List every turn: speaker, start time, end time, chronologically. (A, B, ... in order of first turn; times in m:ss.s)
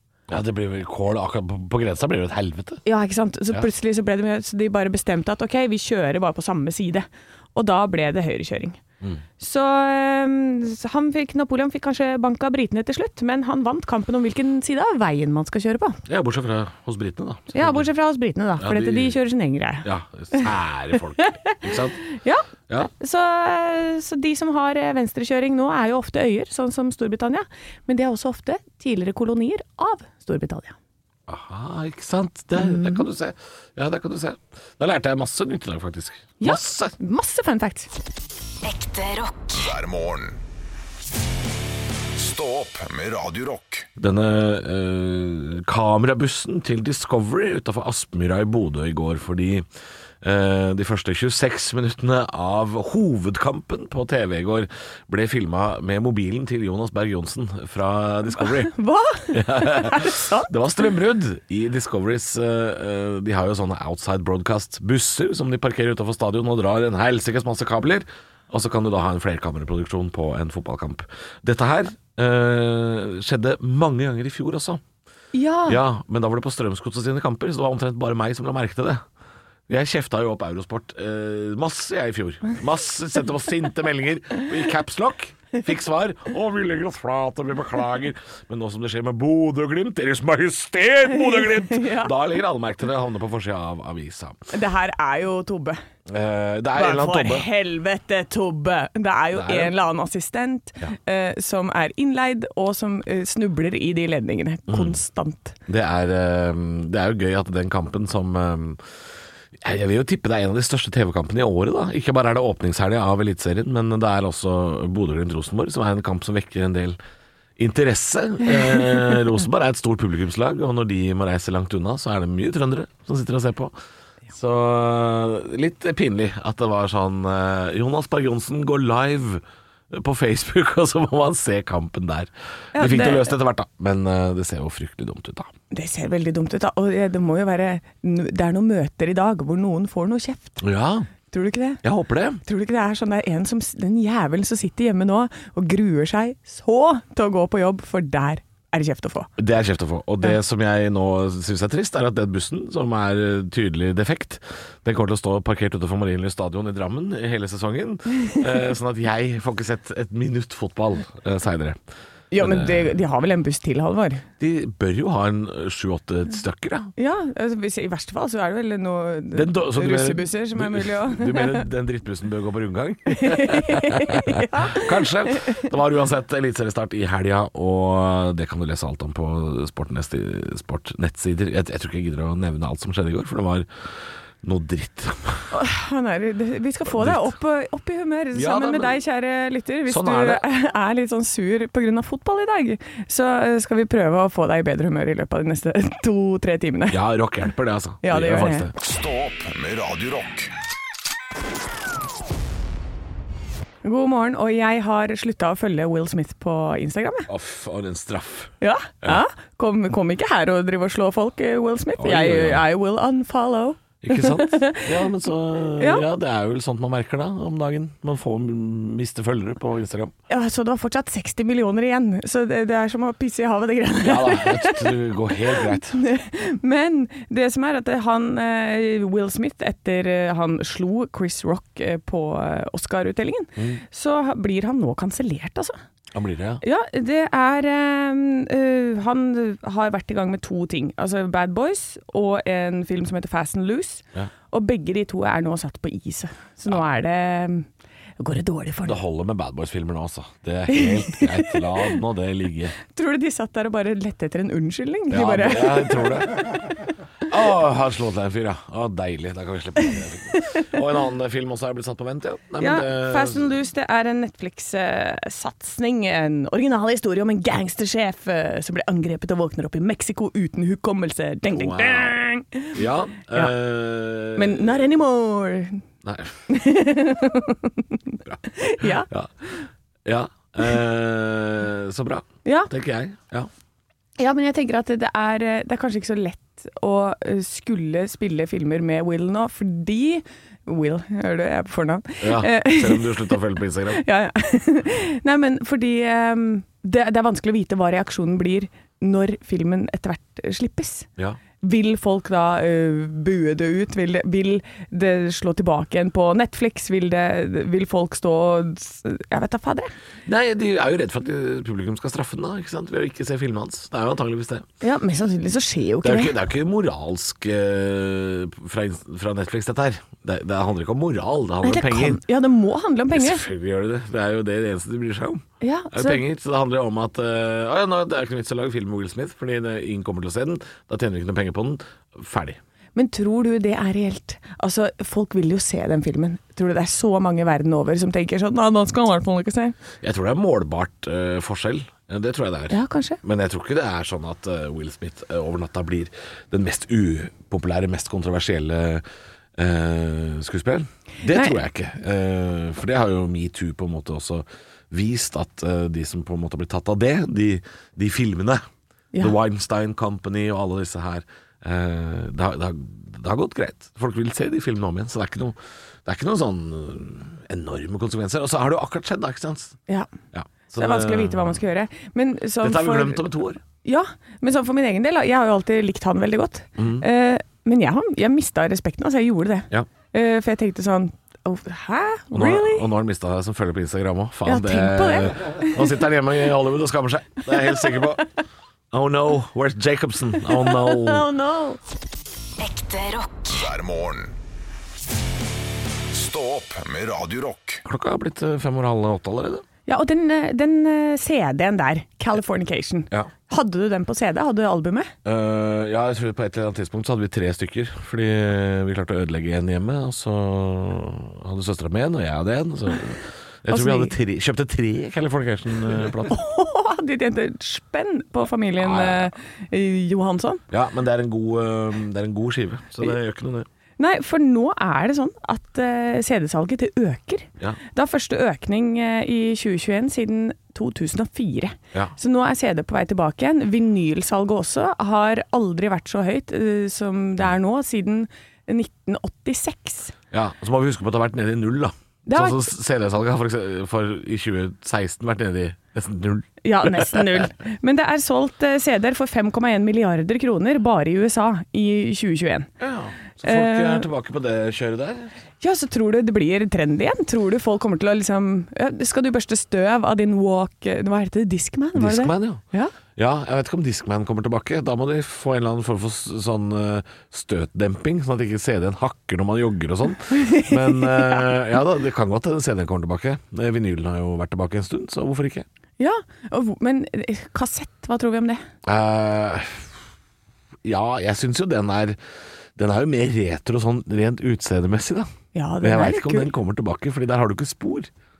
0:00.3-0:02.8 A
0:02.8-0:08.8 B
0:09.4-0:16.0 B
0:16.1-0:17.9 A
0:17.5-0:20.5 B
0:18.6-0:19.2 A
0:19.8-0:22.0 A
0:21.2-0:30.8 B
0:31.3-0:36.9 A
0:32.6-0:33.0 B
0:36.4-0:37.9 B
0:38.6-0:39.6 C
0:39.5-0:40.4 D
0:42.2-0:43.9 D
0:44.0-0:49.7 A
0:50.2-0:58.7 A
0:58.6-1:00.5 B
0:59.3-1:14.8 A
1:15.3-1:15.8 B
1:15.7-1:19.0 A
1:19.7-1:34.5 A
1:31.1-1:32.1 B
1:34.5-1:35.8 B
1:36.1-1:37.5 A
1:36.8-1:45.6 B
1:39.3-1:39.7 A
1:44.7-1:45.0 A
1:45.7-1:48.8 A
1:49.6-1:57.0 A
1:57.6-2:03.8 A
2:04.3-2:15.5 A
2:12.8-2:13.3 B
2:15.7-2:20.6 B
2:20.6-2:21.1 A
2:21.3-2:21.8 B
2:21.8-2:22.4 A
2:22.4-2:29.3 B
2:29.4-2:41.8 A
2:42.3-2:44.2 B
2:42.4-2:43.0 A
2:44.4-2:46.9 A
2:47.0-2:51.6 B
2:49.3-3:03.7 A
2:53.1-2:55.7 B
3:04.4-3:05.5 A
3:05.5-3:17.0 B
3:06.9-3:07.3 A
3:08.3-3:09.0 A
3:09.9-3:10.4 A
3:16.9-3:18.7 A
3:18.0-3:18.7 B
3:18.8-3:20.5 D
3:23.8-3:27.3 B
3:27.3-3:29.2 A
3:28.6-3:34.9 B
3:32.0-3:32.6 A
3:34.0-3:40.1 A
3:35.8-3:36.0 B
3:40.3-3:55.8 B
3:44.0-3:46.0 A
3:53.6-3:53.8 A
3:56.1-3:56.6 A
3:56.6-4:07.7 B
4:08.2-4:09.0 B
4:08.8-4:12.8 A
4:10.7-4:12.0 B
4:12.9-4:16.4 B
4:15.1-4:16.5 A
4:17.3-4:23.5 A
4:20.3-4:20.7 B
4:22.6-4:32.8 B
4:31.5-4:32.2 A
4:32.7-4:34.9 A
4:34.4-4:35.8 B
4:36.0-4:36.4 A
4:36.5-4:39.6 B
4:38.2-4:39.3 A
4:40.0-4:43.5 A
4:42.4-4:42.7 B
4:44.2-5:01.1 B
4:52.2-4:54.0 A
5:01.6-5:09.9 B
5:10.2-5:14.6 A
5:14.8-5:16.4 B
5:16.0-5:22.2 A
5:21.6-5:23.4 B
5:23.1-5:32.6 A
5:25.6-5:26.2 B
5:32.9-5:39.8 B
5:40.0-5:49.0 A
5:42.7-5:43.2 B
5:49.6-5:58.6 A
5:51.3-5:51.6 B
5:59.2-6:09.8 A
6:10.3-6:11.6 A
6:10.8-6:13.2 B
6:12.6-6:13.6 A
6:13.8-6:22.9 B
6:16.8-6:17.0 A
6:22.3-6:28.2 A
6:24.4-6:26.0 B
6:27.5-6:28.1 B
6:28.9-6:31.3 A
6:30.4-6:31.8 B
6:32.6-6:33.6 C
6:33.5-6:34.4 D
6:36.1-6:37.8 D
6:37.8-6:39.6 A
6:39.9-6:45.1 B
6:45.2-6:56.4 A
6:53.7-6:54.1 B
6:56.3-7:00.6 B
6:58.8-6:59.3 A
7:00.7-7:03.7 A
7:04.0-7:20.1 B
7:20.3-7:27.4 A
7:22.2-7:22.6 B
7:26.6-7:32.7 B
7:32.8-7:35.3 A
7:33.4-7:34.1 B
7:35.6-7:42.9 B
7:41.9-7:42.6 A
7:43.2-7:55.6 A
7:50.3-7:51.5 B
7:56.0-7:58.6 B
7:58.8-7:59.9 A
8:00.8-8:02.2 A
8:02.8-8:05.3 A
8:05.5-8:06.5 B
8:05.8-8:08.1 A